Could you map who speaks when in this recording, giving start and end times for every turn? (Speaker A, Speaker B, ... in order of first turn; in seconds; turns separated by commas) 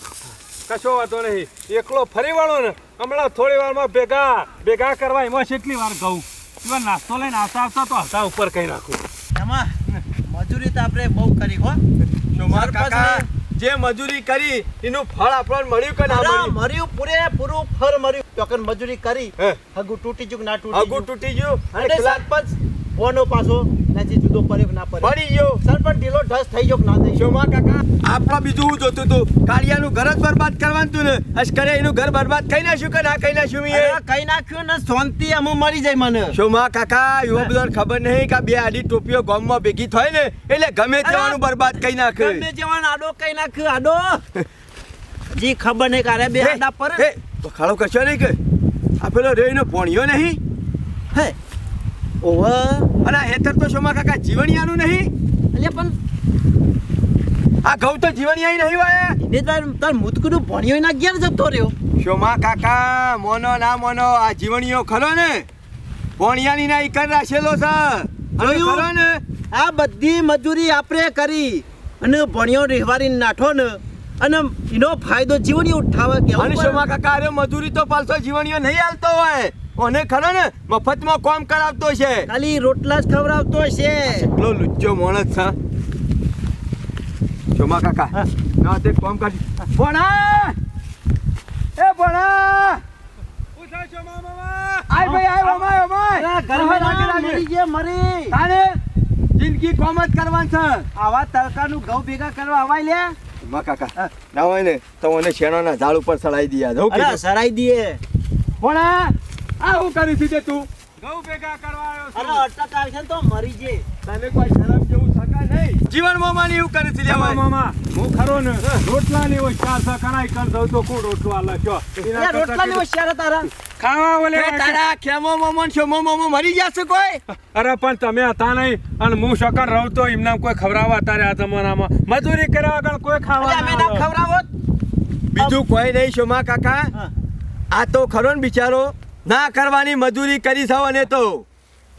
Speaker A: 0.7-9.0, Speaker B: 9.3-9.7, Speaker B: 10.3-11.8, Speaker C: 12.3-16.6, Speaker B: 12.5-13.3, Speaker B: 16.1-21.1, Speaker C: 20.7-22.2, Speaker B: 21.7-27.2, Speaker C: 25.0-25.6, Speaker C: 27.1-34.0, Speaker B: 33.7-36.4, Speaker C: 36.3-42.4, Speaker B: 41.0-41.4, Speaker B: 42.1-44.2, Speaker B: 45.3-47.0, Speaker C: 46.4-48.4, Speaker C: 49.0-50.4, Speaker B: 52.2-52.9, Speaker C: 53.0-55.1, Speaker B: 55.5-55.9, Speaker C: 57.6-59.2, Speaker B: 59.2-61.7, Speaker C: 62.0-65.5, Speaker C: 66.2-69.2, Speaker B: 68.4-68.9, Speaker B: 69.5-76.8, Speaker C: 76.3-82.3, Speaker B: 82.3-84.3, Speaker C: 84.1-85.5, Speaker C: 87.5-90.5, Speaker C: 91.8-92.8, Speaker A: 93.5-94.9, Speaker C: 94.9-97.4, Speaker B: 95.0-98.4, Speaker C: 98.3-98.8, Speaker C: 99.4-100.9, Speaker B: 100.9-103.2, Speaker C: 103.4-107.2, Speaker B: 106.9-108.0, Speaker C: 108.6-110.7, Speaker A: 111.0-112.5, Speaker B: 112.1-113.8, Speaker C: 114.0-117.4, Speaker A: 117.0-122.8, Speaker B: 122.0-123.5, Speaker A: 123.6-124.8, Speaker C: 124.3-127.2, Speaker A: 127.3-134.1, Speaker B: 133.4-134.5, Speaker C: 135.3-136.9, Speaker C: 137.7-141.4